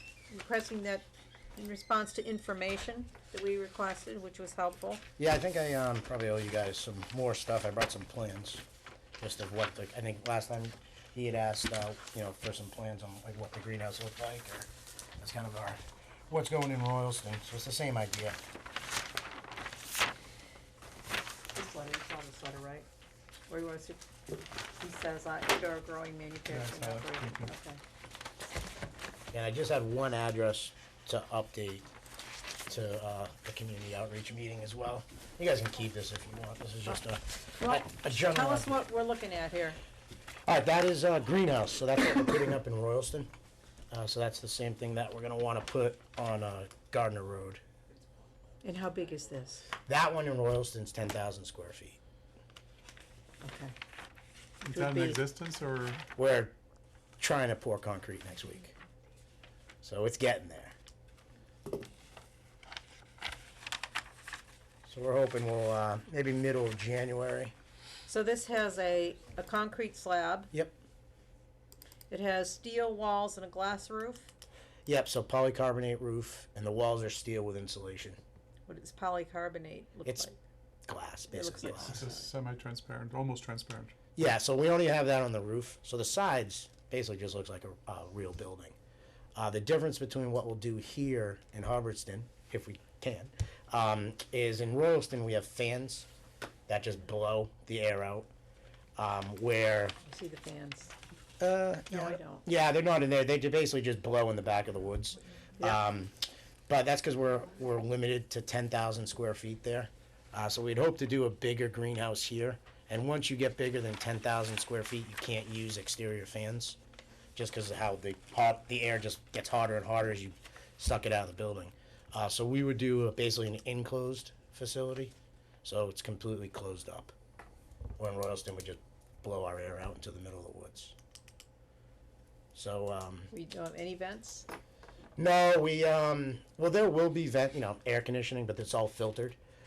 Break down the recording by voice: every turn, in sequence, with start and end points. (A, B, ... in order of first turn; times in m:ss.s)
0:00.3-0:05.0 A
0:05.2-0:08.6 B
0:09.2-0:15.8 B
0:16.3-0:18.4 B
0:21.5-0:22.9 A
0:23.5-0:24.0 A
0:24.8-0:27.8 A
0:26.5-0:27.5 C
0:29.3-0:31.8 B
0:32.6-0:38.8 B
0:37.6-0:39.8 A
0:40.4-0:43.3 B
0:43.9-0:47.6 B
0:48.6-0:49.7 A
0:49.9-0:52.0 B
0:53.4-0:53.7 A
0:54.6-0:56.0 C
0:54.7-0:55.2 A
0:56.2-0:56.6 B
0:57.2-0:58.7 B
0:59.8-1:00.7 B
1:04.9-1:07.5 B
1:08.1-1:10.5 A
1:12.1-1:14.3 A
1:14.9-1:18.2 B
1:18.7-1:20.4 A
1:20.9-1:22.0 B
1:21.3-1:22.2 A
1:21.7-1:24.0 C
1:24.2-1:28.8 B
1:29.3-1:36.1 B
1:36.7-1:38.3 B
1:39.0-1:40.0 B
1:40.0-1:40.9 A
1:41.4-1:46.1 B
1:41.9-1:42.4 A
1:46.7-1:56.8 B
1:57.3-2:05.1 B
2:05.6-2:07.1 B
2:08.0-2:10.9 B
2:12.5-2:13.3 B
2:13.3-2:14.5 A
2:15.2-2:19.4 B